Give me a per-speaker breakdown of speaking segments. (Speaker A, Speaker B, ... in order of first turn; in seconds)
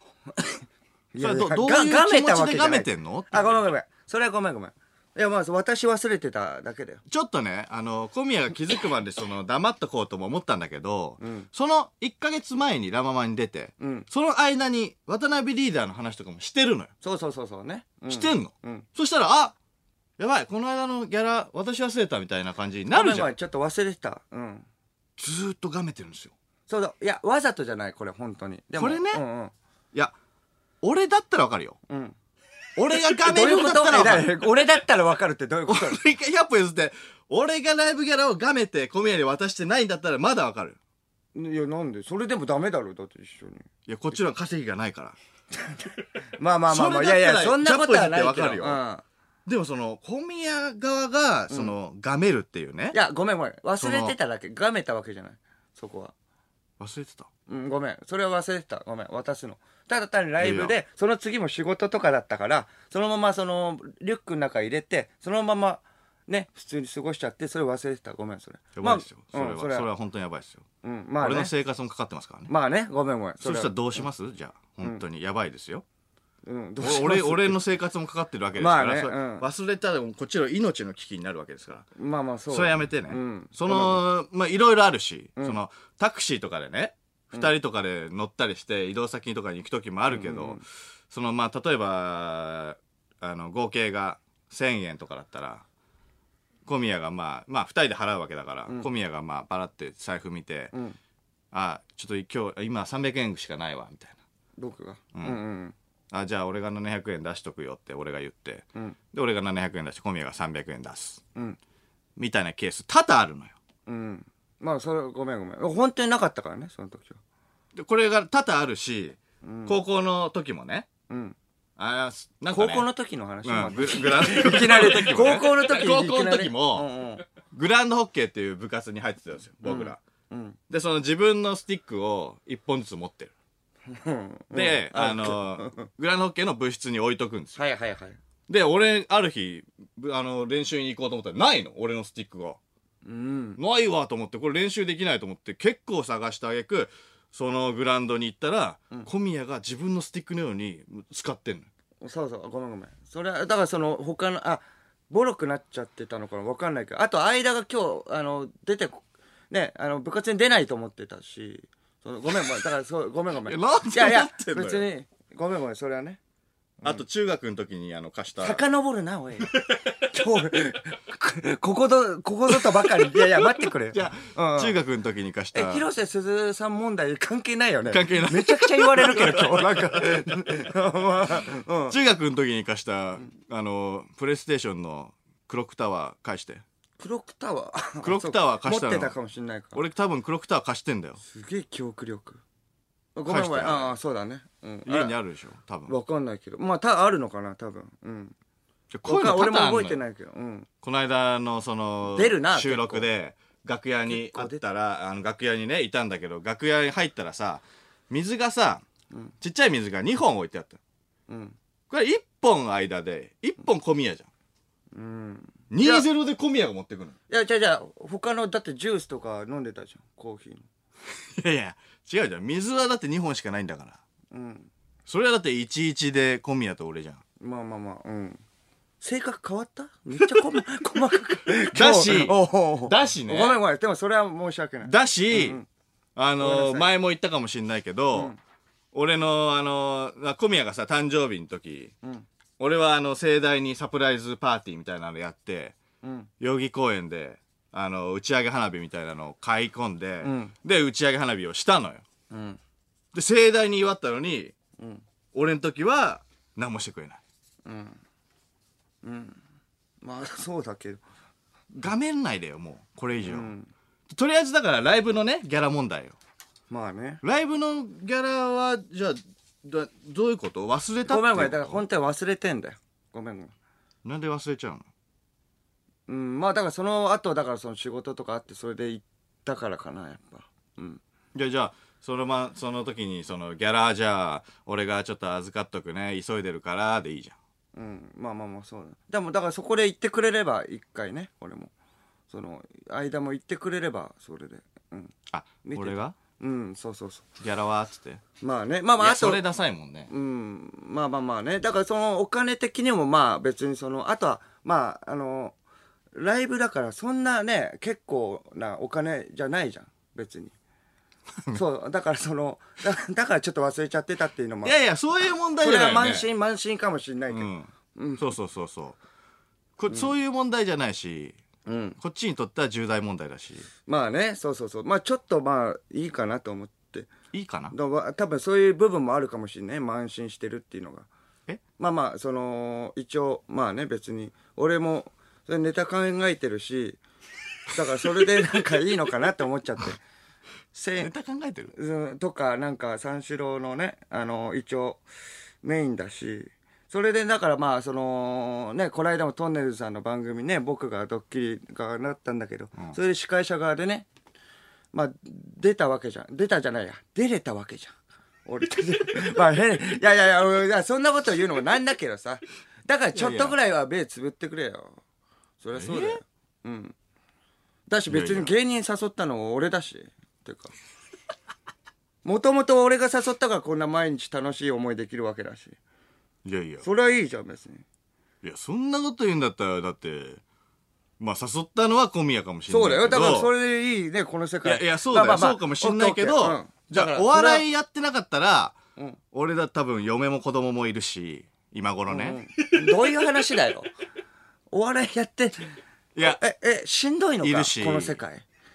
Speaker A: 0.3-7.0, 11.2-11.5, 13.8-14.1, 17.0-18.9, 22.9-24.6, 26.7-29.5, 31.9-32.1, 33.2-36.0, 41.3-43.6, 46.4-49.0, 52.9-56.1, 57.5-69.9, 70.8-71.5, 72.5-74.0, 76.4-77.6, 78.6-79.5, 82.0-84.0, 90.1-90.6, 104.6-105.7, 113.8-117.2, 119.4-119.8, 121.1-121.3, 122.5-127.2, 129.6-130.6, 133.9-135.9, 137.6-138.2, 143.0-143.6, 152.0-166.2, 168.4-174.7, 175.5-181.9, 187.0-189.8, 191.2-192.4, 193.2-195.1, 195.9-198.3, 199.0-200.7, 202.0-203.0, 204.1-204.6, 211.3-211.6, 214.9-216.0, 217.3-220.7, 224.3-224.7, 227.4-228.4, 229.0-235.7, 236.4-236.9, 246.0-246.3, 250.2-250.5, 252.3-252.6, 254.8-255.0, 257.6-258.0, 259.0-259.4, 260.0-261.0, 263.2-263.7, 266.7-267.2, 271.1-273.5, 276.1-281.0, 287.7-291.7, 292.3-295.1, 295.6-297.2, 298.4-299.4, 300.1-305.5, 306.1-310.5, 311.5-314.7, 315.6-318.3, 321.6-322.0, 323.9-327.1, 327.7-331.1, 331.8-337.0, 337.7-340.0, 340.7-341.1, 341.7-345.0, 345.6-354.1, 354.9-357.9, 358.4-365.0, 365.6-366.9, 367.9-370.7, 372.2-375.8, 376.8-377.8, 382.7-387.6, 392.1-393.9, 394.7-398.4
Speaker B: 1.2-3.6, 7.1-16.9, 18.1-19.5, 20.2-23.3, 25.2-26.3, 28.8-29.2, 30.8-31.8, 32.8-34.4, 35.7-40.8, 43.9-45.2, 46.7-48.8, 49.5-53.0, 53.8-54.1, 56.8-57.3, 60.4-60.7, 68.8-70.6, 71.2-72.5, 73.4-75.8, 76.8-81.8, 82.5-95.6, 96.7-100.7, 101.5-104.2, 106.1-111.2, 112.2-113.5, 117.8-120.9, 121.8-122.8, 123.4-126.9, 127.5-130.0, 130.7-133.3, 134.5-137.6, 138.5-142.6, 143.6-151.7, 163.4-164.8, 166.8-168.6, 169.5-170.0, 172.6-175.8, 177.9-179.8, 181.9-186.6, 188.0-189.1, 189.7-191.2, 193.3-193.9, 194.8-195.9, 198.9-200.0, 200.8-208.8, 209.4-210.8, 211.9-214.3, 215.7-217.1, 221.4-224.0, 225.1-227.2, 231.7-233.6, 234.8-235.6, 236.2-238.3, 238.9-241.9, 242.6-245.7, 246.4-252.0, 253.1-254.5, 255.3-257.2, 261.7-263.5, 264.1-266.1, 267.2-271.8, 274.0-274.9, 281.3-287.4, 295.3-296.1, 297.4-298.2, 299.0-300.1, 314.6-316.3, 317.3-319.0, 319.8-321.4, 322.0-323.7, 327.3-327.7, 341.0-341.7, 363.1-363.5, 365.7-366.2, 368.1-368.5, 376.4-376.8, 378.4-380.4, 381.2-383.5, 384.6-388.8, 389.3-393.1, 396.1-396.4, 397.4-398.2